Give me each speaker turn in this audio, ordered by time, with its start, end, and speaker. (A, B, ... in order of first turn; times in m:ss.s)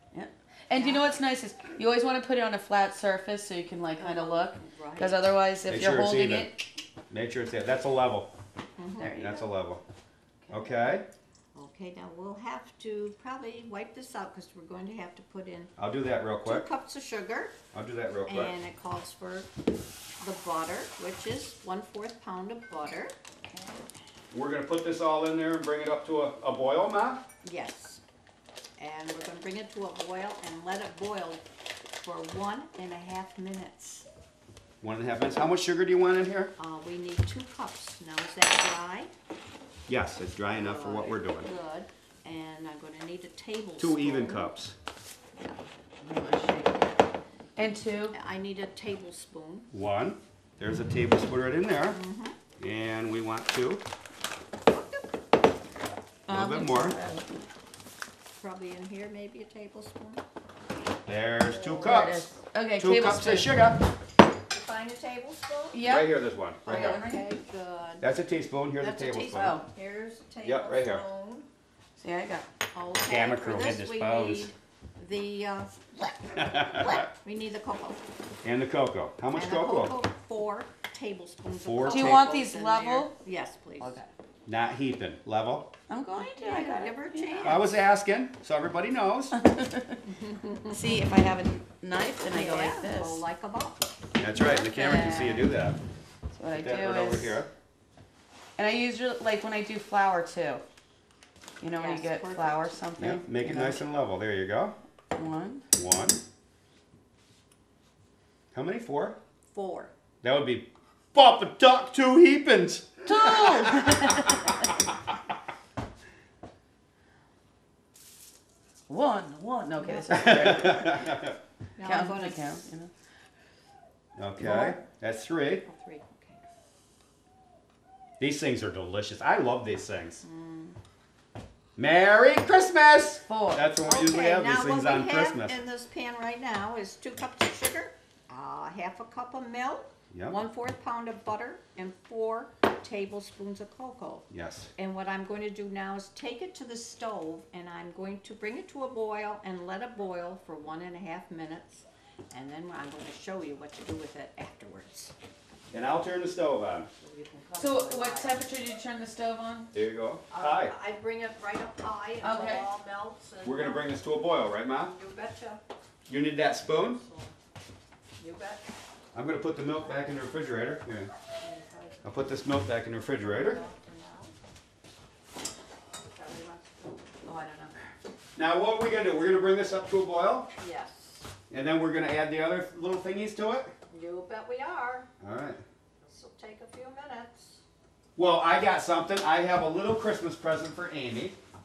0:00.1-0:06.6 A
0:00.8-0:01.1 B
0:04.0-0:05.3 B
0:05.7-0:08.3 C
0:08.8-0:09.2 B
0:09.0-0:09.4 A
0:09.1-0:09.8 C
0:10.4-0:10.9 A
0:10.5-0:11.1 C
0:11.5-0:15.7 B
0:15.8-0:16.6 C
0:16.4-0:17.6 B
0:17.7-0:18.5 C
0:18.3-0:19.5 B
0:20.2-0:23.1 B
0:24.3-0:27.2 C
0:27.4-0:28.0 B
0:28.8-0:31.4 B
0:32.0-0:34.1 B
0:34.8-0:36.5 C
0:36.6-0:39.1 B
0:39.9-0:41.5 C
0:40.5-0:44.5 B
0:43.8-0:44.8 C
0:46.0-0:46.9 A
0:47.6-0:48.2 A
0:48.1-0:49.7 B
0:49.7-0:52.0 C
0:51.9-0:52.4 B
0:52.6-0:53.8 C
0:54.7-0:55.1 B
0:56.3-0:57.0 C
0:56.3-0:57.2 A
0:58.4-1:00.2 B
1:01.1-1:03.8 C
1:01.8-1:03.7 A
1:04.5-1:05.9 B
1:05.7-1:06.1 A
1:05.9-1:07.0 C
1:06.7-1:07.2 A
1:06.7-1:08.1 B
1:08.0-1:09.6 C
1:08.8-1:11.5 B
1:10.4-1:11.0 C
1:12.0-1:12.5 A
1:12.7-1:18.0 B
1:13.1-1:14.5 C
1:16.4-1:17.0 C
1:18.4-1:20.0 C
1:19.3-1:24.0 B
1:21.6-1:22.3 C
1:21.9-1:23.1 A
1:23.8-1:24.1 A
1:24.5-1:25.7 C
1:25.9-1:27.6 A
1:26.2-1:27.6 B
1:27.4-1:29.4 C
1:29.3-1:30.0 A
1:30.1-1:30.8 B
1:30.7-1:33.2 A
1:32.3-1:33.8 B
1:34.2-1:35.8 C
1:34.4-1:35.5 A
1:36.3-1:37.4 A
1:36.6-1:37.5 C
1:38.6-1:40.6 A
1:41.6-1:43.8 A
1:41.8-1:42.7 B
1:43.0-1:44.8 C
1:45.1-1:45.6 A
1:45.8-1:46.2 C
1:48.5-1:49.2 C
1:49.5-1:49.9 B
1:50.2-1:54.3 C
1:53.1-1:54.8 A
1:58.9-2:01.1 A
1:59.8-2:00.8 B
2:00.1-2:01.4 C
2:01.8-2:02.7 B
2:01.8-2:02.9 A
2:04.2-2:05.6 C
2:04.4-2:04.8 B
2:05.7-2:06.4 B
2:08.2-2:10.2 C
2:10.2-2:10.8 B
2:11.8-2:15.6 C
2:13.3-2:13.6 A
2:13.8-2:35.1 B
2:24.3-2:24.7 C
2:35.7-2:36.9 C
2:37.0-2:38.4 B
2:37.6-2:39.7 A
2:39.7-2:40.7 C
2:40.3-2:44.0 B
2:42.2-2:42.6 A
2:43.4-2:44.9 C
2:44.8-2:45.6 B
2:46.1-2:47.0 C
2:46.8-2:47.3 B
2:48.2-2:48.7 B
2:49.1-2:51.1 C
2:51.4-2:52.1 B
2:52.0-2:53.6 C
2:53.1-2:54.3 B
2:56.0-2:57.1 B
2:57.2-2:57.7 A
2:58.4-3:00.5 C
3:00.6-3:01.3 B
3:01.5-3:03.7 C
3:03.9-3:05.1 B
3:05.2-3:05.6 C
3:06.0-3:07.6 B
3:08.2-3:11.4 C